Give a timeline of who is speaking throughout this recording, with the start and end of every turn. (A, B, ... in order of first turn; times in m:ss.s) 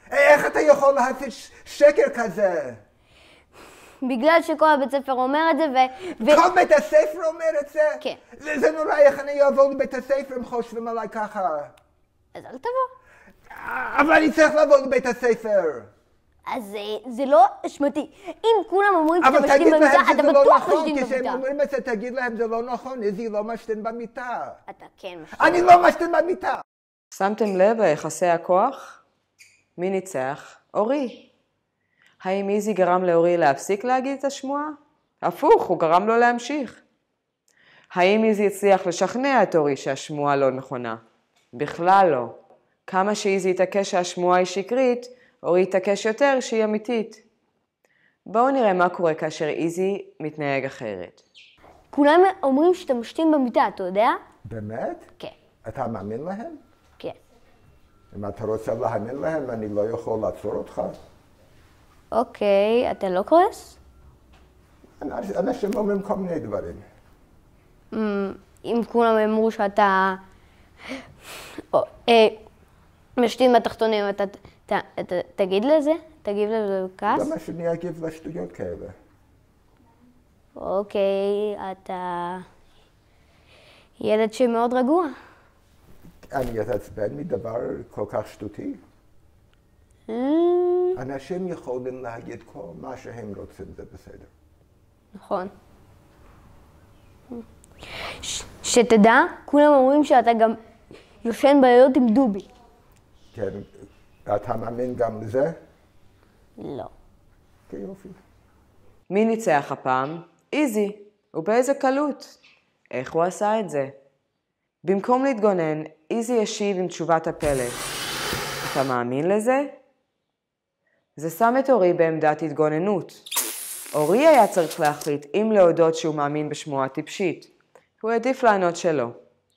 0:00.1-0:02.8 A
0:04.0-0:06.4 B
0:06.2-0:11.7 A
0:12.3-0:12.9 B
0:13.5-0:15.9 A
0:16.5-0:21.4 B
0:19.2-0:24.6 A
0:24.7-0:25.7 B
0:25.3-0:26.6 A
0:27.1-0:29.0 C
0:29.8-0:31.3 C
0:32.2-0:36.8 C
0:37.9-0:41.0 C
0:41.5-0:47.2 C
0:48.3-0:51.2 C
0:51.9-0:54.2 B
0:54.5-0:55.1 A
0:55.6-0:56.6 A
0:58.1-1:01.0 A
1:02.1-1:03.8 B
1:05.0-1:06.8 A
1:07.9-1:10.2 B
1:11.6-1:12.4 B
1:13.2-1:17.3 B
1:17.1-1:19.0 A
1:20.6-1:22.4 B
1:24.0-1:25.1 B
1:26.3-1:28.8 A
1:30.1-1:31.0 B
1:31.0-1:34.3 A
1:35.2-1:35.5 B
1:38.0-1:40.6 B
1:41.2-1:42.5 B
1:43.3-1:43.7 A
1:44.3-1:45.6 A
1:46.6-1:46.9 B
1:47.7-1:48.2 A
1:49.1-1:52.4 C
1:52.9-1:53.9 C
1:54.8-1:57.8 C
1:58.6-1:59.8 C
2:01.2-2:03.2 C
2:03.9-2:09.2 C